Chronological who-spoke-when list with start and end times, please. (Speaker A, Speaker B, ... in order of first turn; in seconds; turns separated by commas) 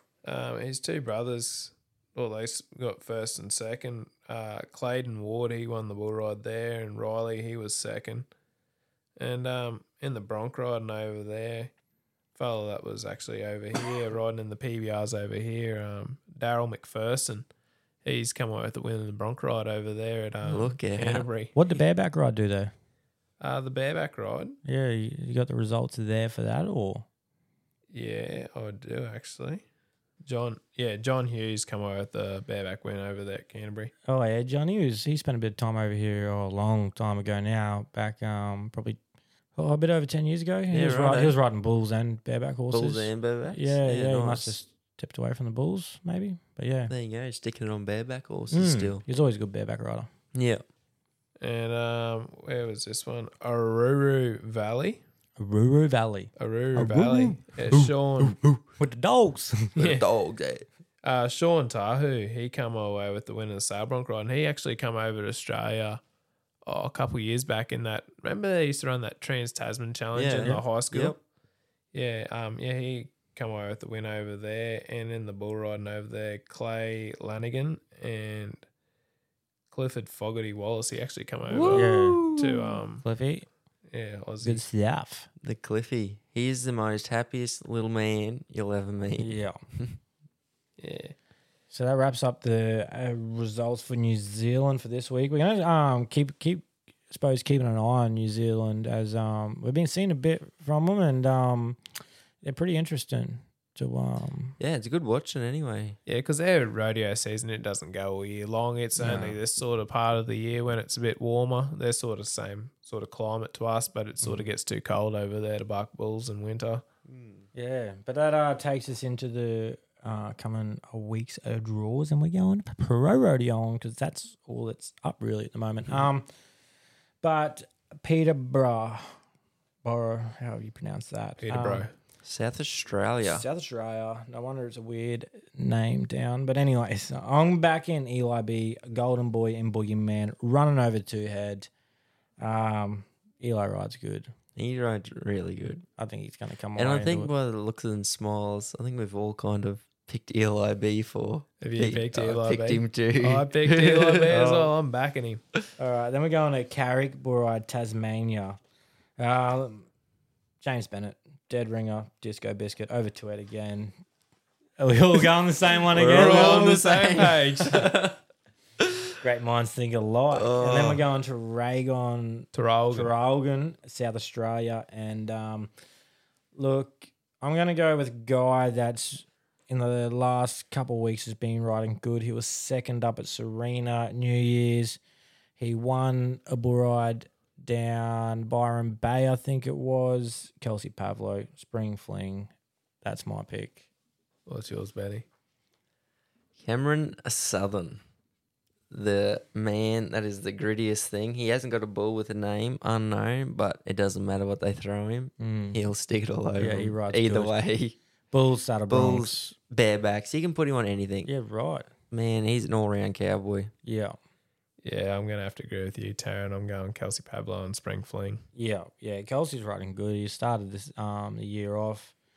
Speaker A: 0.2-8.3, Speaker A: 9.2-11.7, Speaker A: 12.3-17.5, Speaker A: 18.0-21.6, Speaker B: 20.4-21.3, Speaker C: 21.5-22.7, Speaker A: 23.4-24.6, Speaker C: 24.6-27.1, Speaker A: 27.9-29.6, Speaker A: 30.2-33.9, Speaker C: 34.1-39.0, Speaker C: 39.5-46.9, Speaker B: 40.7-41.4, Speaker B: 42.7-44.6, Speaker B: 46.9-49.0, Speaker C: 48.5-50.1, Speaker B: 50.3-50.6, Speaker A: 51.4-55.0, Speaker C: 55.4-59.8, Speaker A: 56.4-58.4, Speaker A: 59.8-60.0, Speaker B: 59.8-60.6, Speaker A: 61.0-66.0, Speaker A: 66.6-71.2, Speaker B: 70.1-71.2, Speaker A: 71.9-78.6, Speaker A: 79.7-83.0, Speaker B: 81.5-82.8, Speaker C: 81.7-82.2, Speaker C: 83.0-83.5, Speaker A: 83.9-84.6, Speaker C: 84.4-85.3, Speaker B: 85.4-90.0, Speaker C: 89.2-89.6, Speaker A: 90.8-91.1, Speaker C: 91.7-101.8, Speaker C: 102.4-104.5, Speaker B: 104.6-106.0, Speaker A: 106.0-116.8, Speaker C: 109.0-109.4, Speaker B: 117.1-117.4, Speaker C: 117.5-126.3, Speaker C: 127.2-129.2, Speaker C: 129.8-131.9, Speaker A: 131.4-131.9, Speaker B: 132.2-133.4, Speaker C: 133.2-141.7, Speaker C: 142.4-144.3, Speaker B: 144.6-145.8, Speaker C: 146.0-147.3, Speaker B: 146.7-154.3, Speaker A: 151.6-155.4, Speaker C: 154.3-154.7, Speaker C: 155.8-158.6, Speaker C: 159.2-159.9, Speaker C: 160.6-163.9, Speaker C: 164.8-166.6, Speaker B: 165.9-168.2, Speaker A: 166.1-167.9, Speaker C: 169.2-175.7, Speaker B: 170.3-171.0, Speaker A: 172.5-173.1, Speaker C: 176.5-185.0, Speaker C: 185.6-192.5, Speaker C: 193.0-193.8, Speaker A: 194.4-195.2, Speaker B: 196.6-198.0, Speaker B: 198.9-208.0, Speaker C: 205.4-205.8, Speaker C: 206.6-207.6, Speaker C: 208.3-209.6, Speaker B: 208.9-211.3, Speaker C: 211.2-211.9, Speaker B: 212.1-213.7, Speaker C: 213.8-214.2, Speaker A: 214.8-218.4, Speaker C: 218.5-222.1